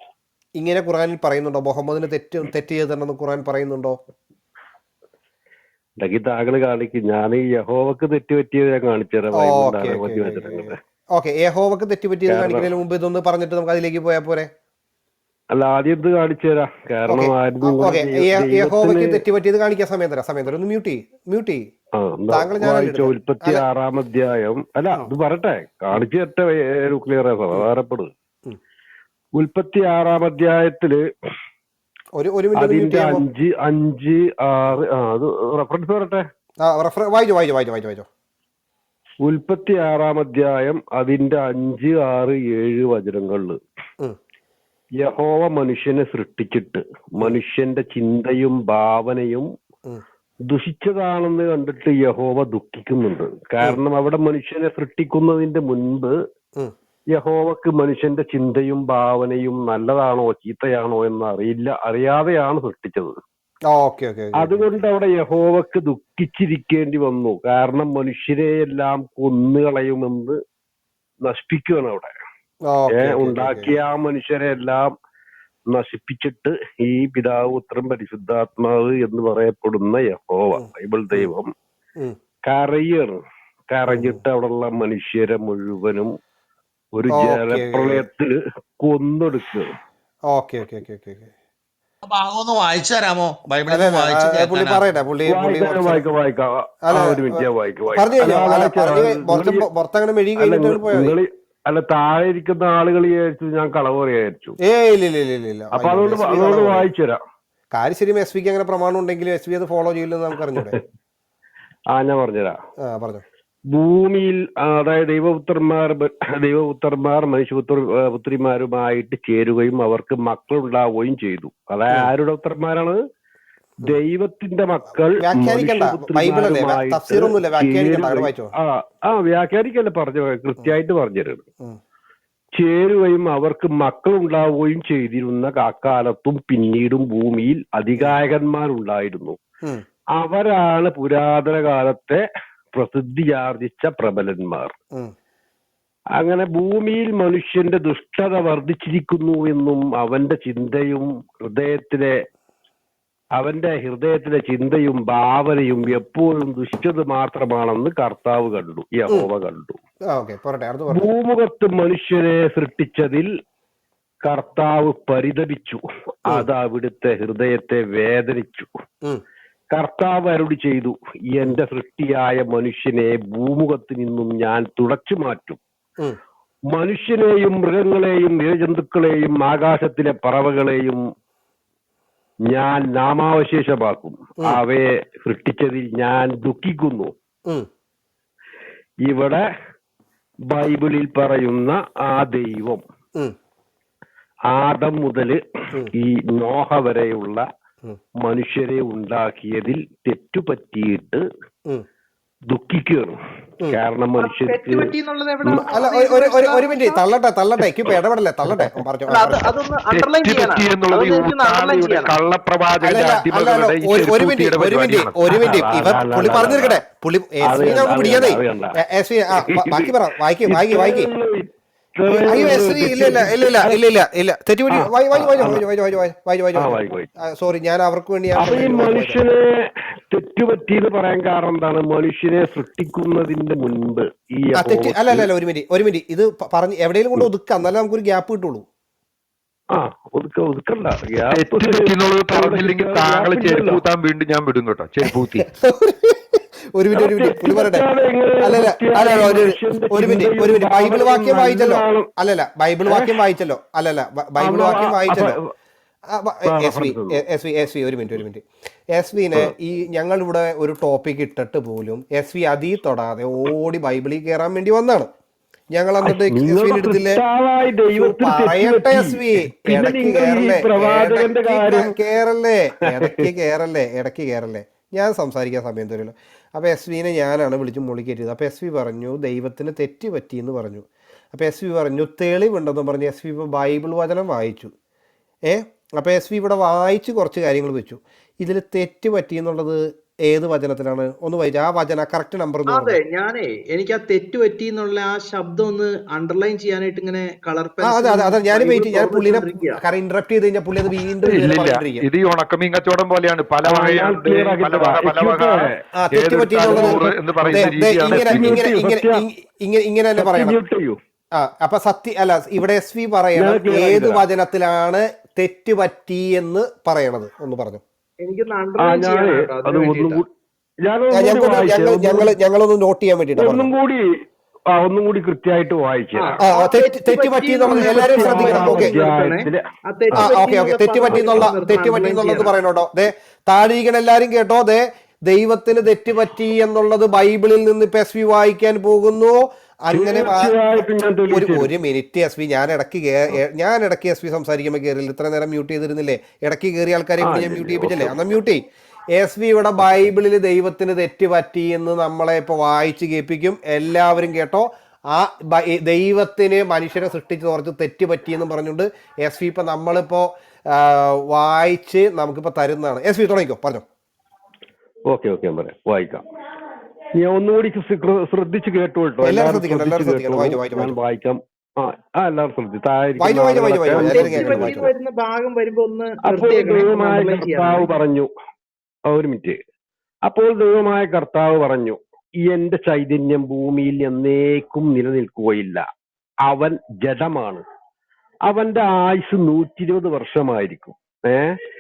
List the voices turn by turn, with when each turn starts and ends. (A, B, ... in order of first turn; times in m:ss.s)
0:00.6-0:04.0 A
0:06.0-0:10.7 B
0:09.3-0:14.5 A
0:12.3-0:12.7 B
0:15.5-0:19.2 B
0:17.1-0:21.7 A
0:22.0-0:28.1 B
0:22.3-0:23.6 A
0:29.4-0:31.0 B
0:32.2-0:33.2 A
0:32.6-0:36.2 B
0:36.6-0:38.0 A
0:39.2-0:43.6 B
0:45.0-0:49.5 B
0:50.5-0:56.1 B
0:57.1-1:03.2 B
1:03.7-1:04.8 A
1:04.4-1:10.3 B
1:11.2-1:12.1 B
1:12.7-1:13.7 A
1:12.9-1:14.9 B
1:15.7-1:21.5 B
1:20.6-1:21.3 A
1:22.5-1:23.2 B
1:23.7-1:26.1 B
1:23.9-1:24.2 A
1:27.0-1:29.7 B
1:27.1-1:28.0 A
1:30.3-1:31.3 A
1:32.0-1:34.8 C
1:33.7-1:36.0 A
1:35.2-1:39.7 B
1:36.9-1:41.2 A
1:40.4-1:44.6 B
1:44.6-1:46.9 A
1:45.8-1:47.2 B
1:47.7-1:50.8 A
1:51.9-1:52.6 B
1:52.8-1:53.2 A
1:53.7-2:03.0 B
2:03.8-2:11.4 B
2:05.2-2:08.5 A
2:12.6-2:19.4 B
2:20.2-2:24.7 B
2:26.2-2:32.2 B
2:33.4-2:39.8 B
2:40.1-2:41.0 A
2:40.9-2:43.3 B
2:44.2-2:48.7 B
2:49.7-2:55.6 B
2:56.7-3:01.0 B
3:02.5-3:07.1 B
3:09.1-3:09.4 B
3:10.5-3:12.8 B
3:14.5-3:15.4 B
3:15.9-3:17.4 B
3:18.2-3:21.2 B
3:22.5-3:23.2 B
3:23.7-3:24.9 B
3:24.2-3:27.0 D
3:25.4-3:25.7 B
3:25.7-3:29.5 A
3:29.1-3:32.2 D
3:29.9-3:35.2 E
3:32.8-3:41.1 A
3:35.3-3:36.8 B
3:37.4-3:38.8 B
3:39.4-3:39.9 B
3:40.4-3:43.8 B
3:42.1-3:49.2 A
3:44.7-3:45.6 B
3:46.6-3:47.1 B
3:48.4-3:49.4 B
3:50.1-3:55.3 B
3:54.6-3:58.6 A
3:59.7-4:03.8 B
4:01.3-4:05.4 E
4:05.4-4:07.8 A
4:06.9-4:12.1 B
4:08.4-4:15.4 A
4:12.9-4:13.2 B
4:14.4-4:15.4 B
4:16.1-4:18.4 A
4:16.4-4:17.2 B
4:18.9-4:25.1 A
4:25.8-4:27.2 A
4:26.0-4:32.0 B
4:27.9-4:44.7 A
4:33.0-4:33.2 B
4:45.5-4:53.0 A
4:52.7-4:59.8 D
4:57.8-5:02.0 A
5:01.2-5:08.6 E
5:03.6-5:05.7 B
5:06.0-5:10.6 A
5:06.6-5:09.2 B
5:10.2-5:11.0 B
5:11.4-5:17.8 A
5:13.4-5:14.2 B
5:18.2-5:20.2 D
5:18.8-5:20.2 B
5:20.8-5:22.3 B
5:21.1-5:23.7 A
5:23.4-5:24.0 B
5:24.7-5:26.4 B
5:26.2-5:32.5 D
5:26.4-5:29.0 A
5:27.7-5:29.6 B
5:30.1-5:48.6 A
5:31.1-5:31.5 B
5:39.9-5:41.7 B
5:47.2-5:48.2 B
5:49.2-6:03.8 A
6:05.1-6:06.2 B
6:07.2-6:14.8 B
6:09.2-6:11.0 A
6:13.2-6:14.9 A
6:13.9-6:17.9 D
6:16.2-6:18.3 B
6:19.1-6:19.6 B
6:20.3-6:25.8 B
6:26.5-6:27.6 B
6:28.5-6:31.6 B